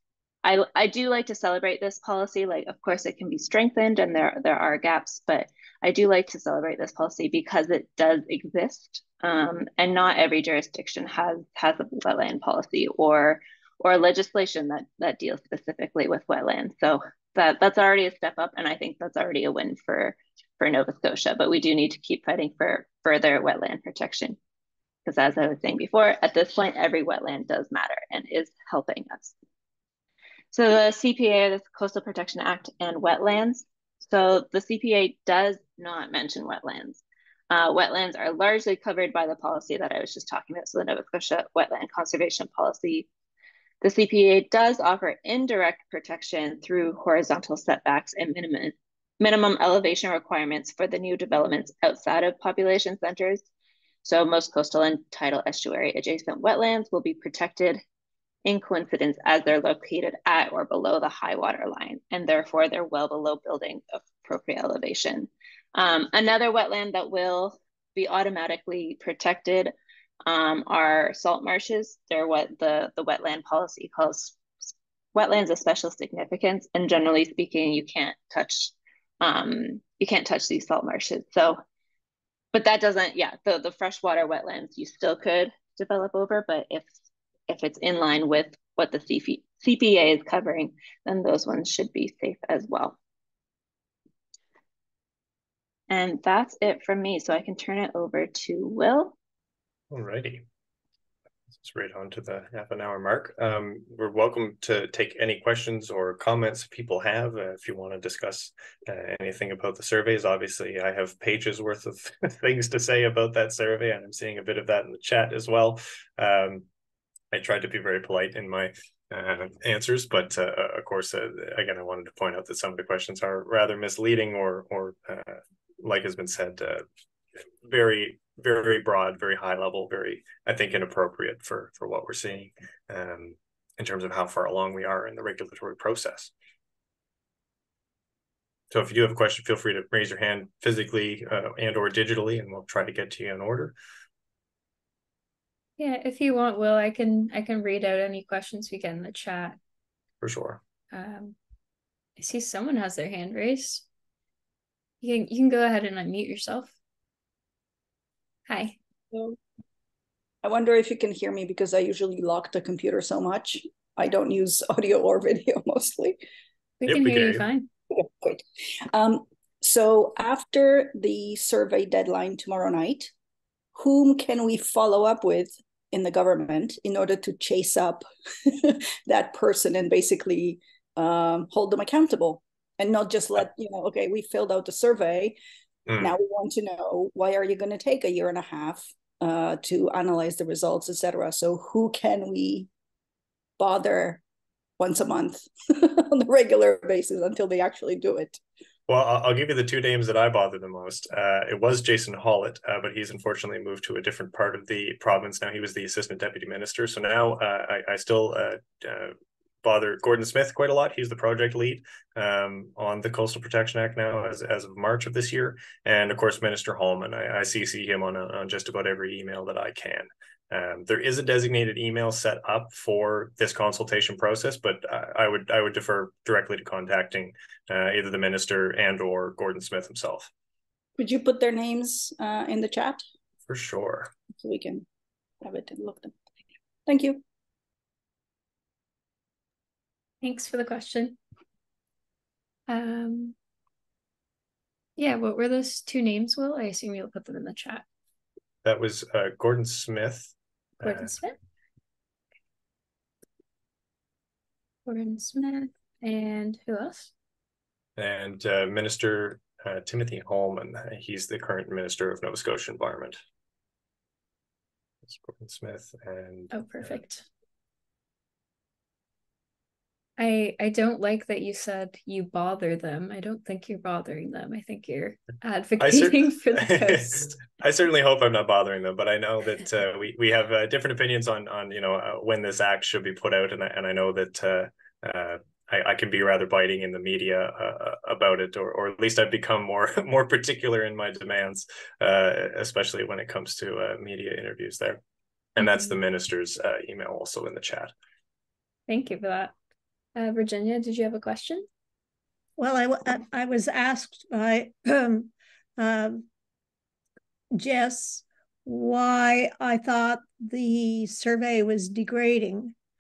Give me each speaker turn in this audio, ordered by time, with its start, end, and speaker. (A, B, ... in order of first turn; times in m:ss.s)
0:00.4-0:24.4 A
0:25.0-0:29.3 A
0:30.5-0:43.1 A
0:43.8-0:53.4 A
0:54.0-0:57.8 A
0:58.4-1:09.7 A
1:10.2-1:21.6 A
1:22.5-1:26.9 A
1:27.5-1:33.0 A
1:35.9-1:39.2 A
1:39.9-1:40.4 B
1:41.6-1:56.6 B
1:57.3-2:06.8 B
2:07.6-2:16.3 B
2:18.7-2:23.7 B
2:25.8-2:29.6 C
2:30.2-2:30.6 B
2:30.9-2:31.4 C
2:32.2-2:33.8 C
2:35.0-2:36.7 C
2:38.5-2:38.8 C
2:40.4-2:46.2 D
2:46.8-2:47.7 C
2:46.8-2:47.5 B
2:48.0-2:53.1 D
2:53.7-3:05.4 D
3:05.9-3:06.1 B
3:06.0-3:12.7 D
3:13.6-3:14.2 D
3:14.8-3:18.4 D
3:18.9-3:50.3 B
3:51.0-3:53.0 D
3:53.5-3:54.1 B
3:54.4-3:54.8 D
3:55.4-3:56.2 D
3:56.9-3:57.2 D
4:00.2-4:01.2 C
4:02.7-4:03.3 C
4:05.0-4:07.8 C
4:08.6-4:11.1 B
4:10.8-4:11.4 C
4:14.8-4:17.1 C
4:18.0-4:23.2 B
4:25.0-4:27.0 B
4:26.5-4:27.2 C
4:30.2-4:37.4 C
4:35.8-4:55.0 B
4:55.6-4:57.9 B
4:58.9-4:59.5 C
5:00.1-5:01.6 C
5:02.6-5:06.2 E
5:07.5-5:12.7 E